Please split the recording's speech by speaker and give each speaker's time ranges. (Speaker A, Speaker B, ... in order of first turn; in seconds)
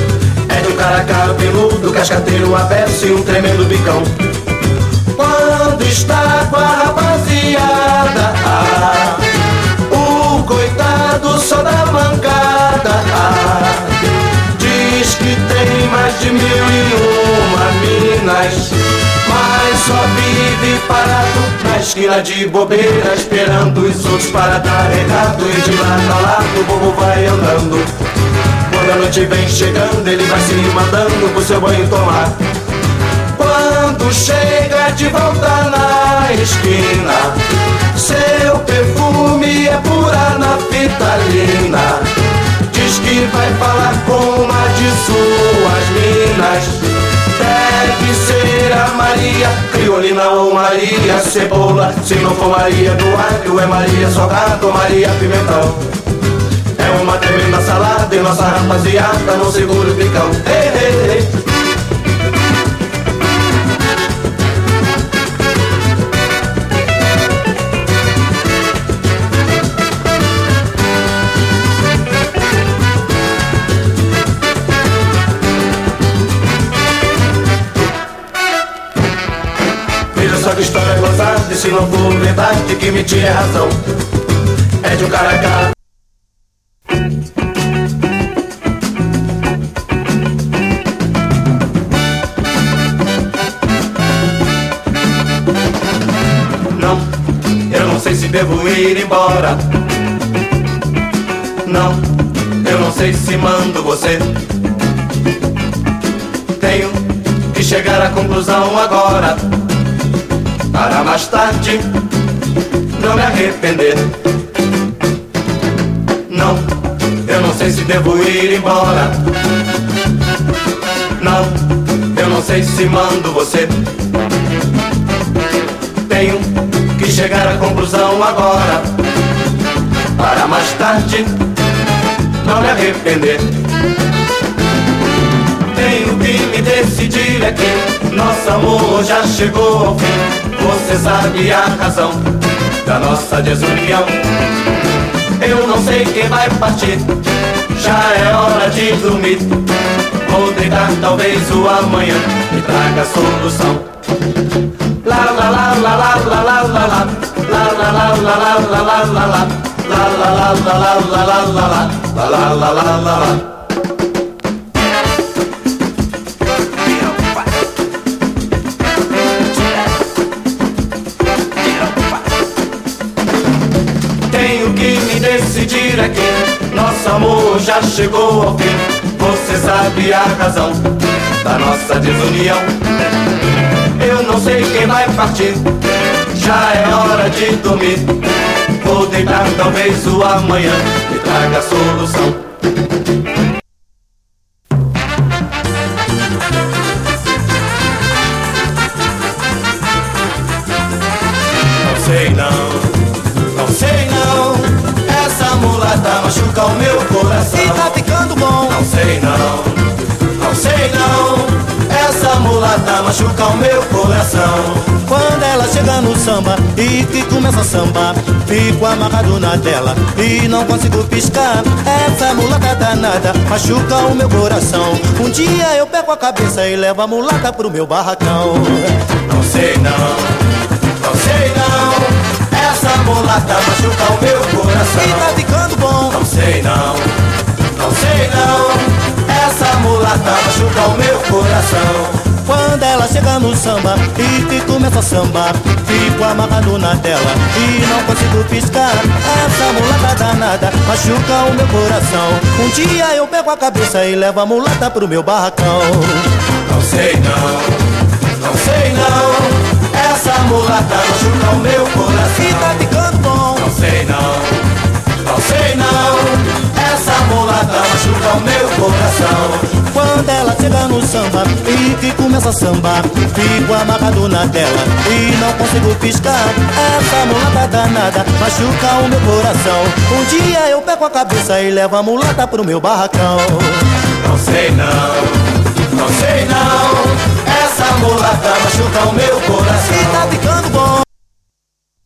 Speaker A: 0.5-4.2, 5.1-27.9, 28.6-32.4, 33.3-55.9, 56.8-61.4, 80.1-83.8, 84.8-85.8, 96.7-97.1, 97.7-99.7, 101.6-104.4, 106.6-109.6, 110.7-112.1, 112.9-114.2, 116.3-119.3, 121.2-123.9, 126.1-128.9, 130.2-131.5, 132.4-133.6, 135.7-144.3, 145.4-149.7, 150.2-153.9, 155.0-163.5, 174.3-182.7, 183.9-192.4, 201.8-208.0, 208.7-215.0, 229.1-230.4, 231.0-235.4, 236.1-242.4, 256.5-262.9, 263.6-264.7, 265.2-269.9, 284.1-290.3
Speaker B: 207.5-208.8, 215.0-229.1, 235.0-236.2, 242.4-256.4, 262.4-263.6, 269.9-283.9, 289.9-291.1